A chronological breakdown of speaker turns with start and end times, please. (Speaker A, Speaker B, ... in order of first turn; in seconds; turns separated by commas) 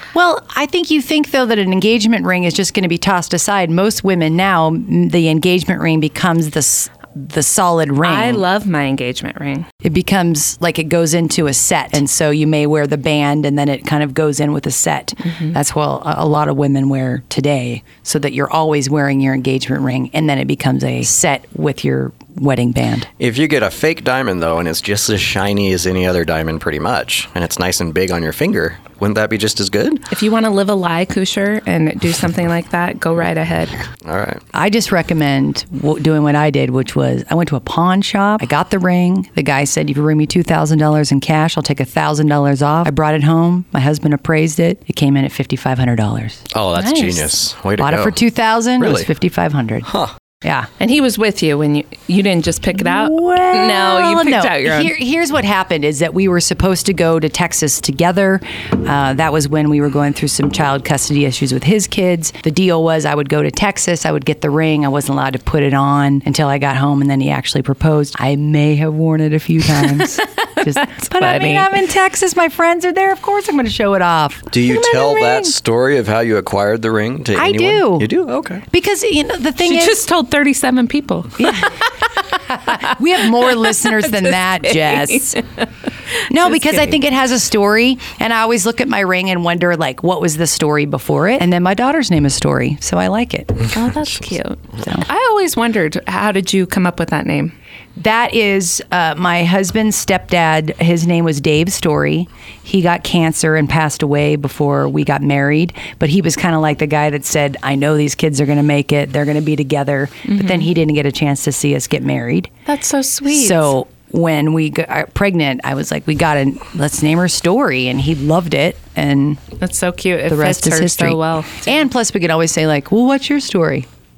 Speaker A: 0.1-8.4, Speaker B: 8.0-9.7, Speaker A: 9.8-23.1, Speaker C: 23.2-30.0, Speaker B: 30.1-33.8, Speaker C: 34.0-34.4, Speaker A: 34.5-46.5, Speaker C: 46.5-48.2, Speaker B: 46.8-47.3, Speaker A: 47.8-49.9, Speaker C: 48.8-49.1, Speaker C: 49.9-50.1, Speaker A: 50.4-50.7, Speaker B: 50.8-55.0, Speaker A: 52.8-75.5, Speaker B: 69.8-71.8, Speaker C: 74.5-78.6, Speaker A: 77.3-78.1, Speaker A: 78.7-80.0, Speaker B: 79.6-81.9, Speaker A: 81.4-81.8, Speaker A: 82.5-85.4, Speaker B: 82.7-85.7, Speaker A: 86.3-93.7, Speaker B: 86.3-87.0, Speaker B: 93.7-97.5, Speaker A: 98.0-112.5, Speaker B: 110.3-110.7, Speaker B: 112.7-113.7, Speaker A: 113.3-119.4, Speaker B: 119.6-121.9, Speaker A: 120.3-123.9